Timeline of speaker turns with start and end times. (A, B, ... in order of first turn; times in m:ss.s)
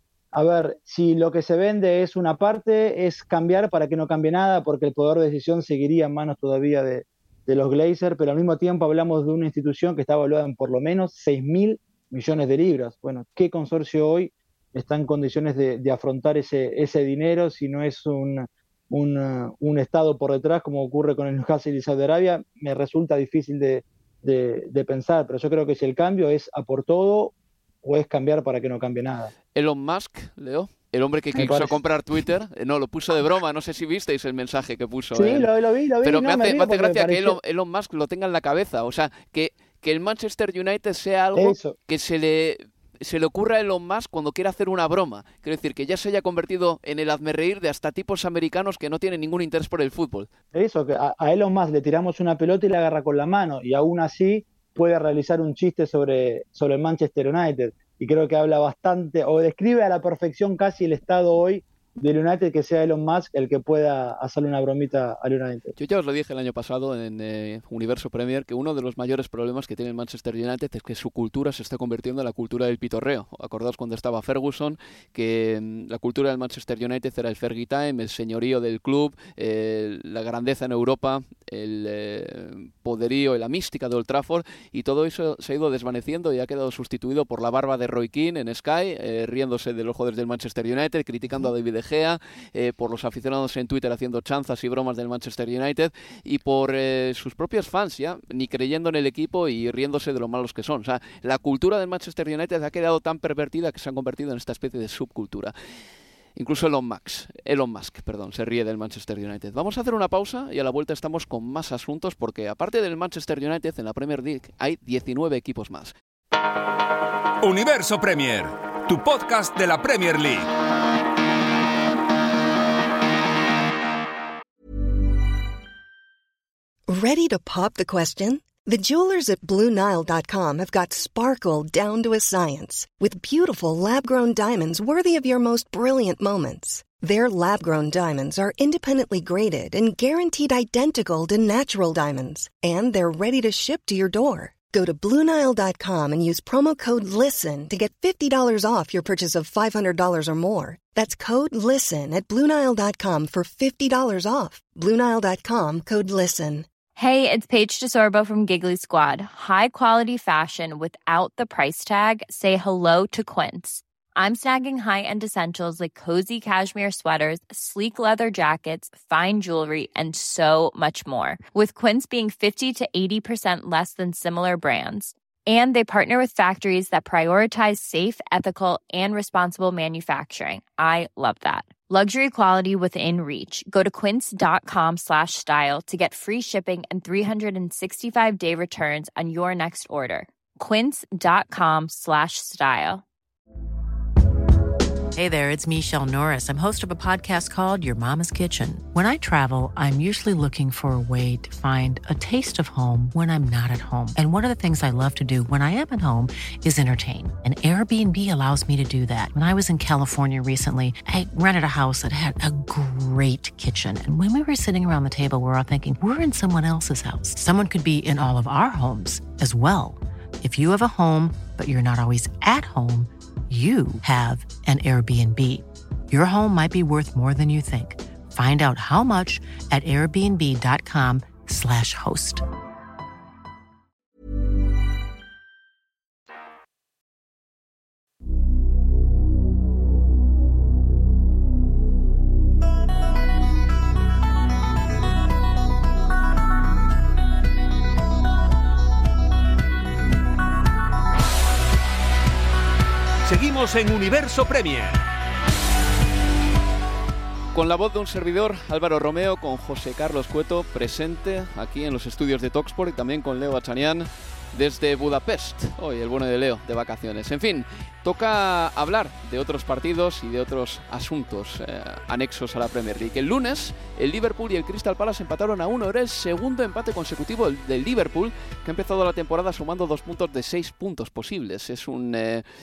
0:00.3-0:29.3 A
0:29.5-0:35.5 B
0:31.3-0:31.8 A
0:35.1-0:37.4 A
0:36.0-0:50.3 B
0:41.4-0:41.8 A
0:50.5-1:05.7 A
1:05.8-1:45.5 B
1:46.4-1:55.9 B
1:57.4-2:00.5 C
2:06.9-2:36.7 D
2:37.0-3:13.0 E
3:15.2-3:52.4 F
4:13.2-4:15.0 C
4:17.5-4:42.4 B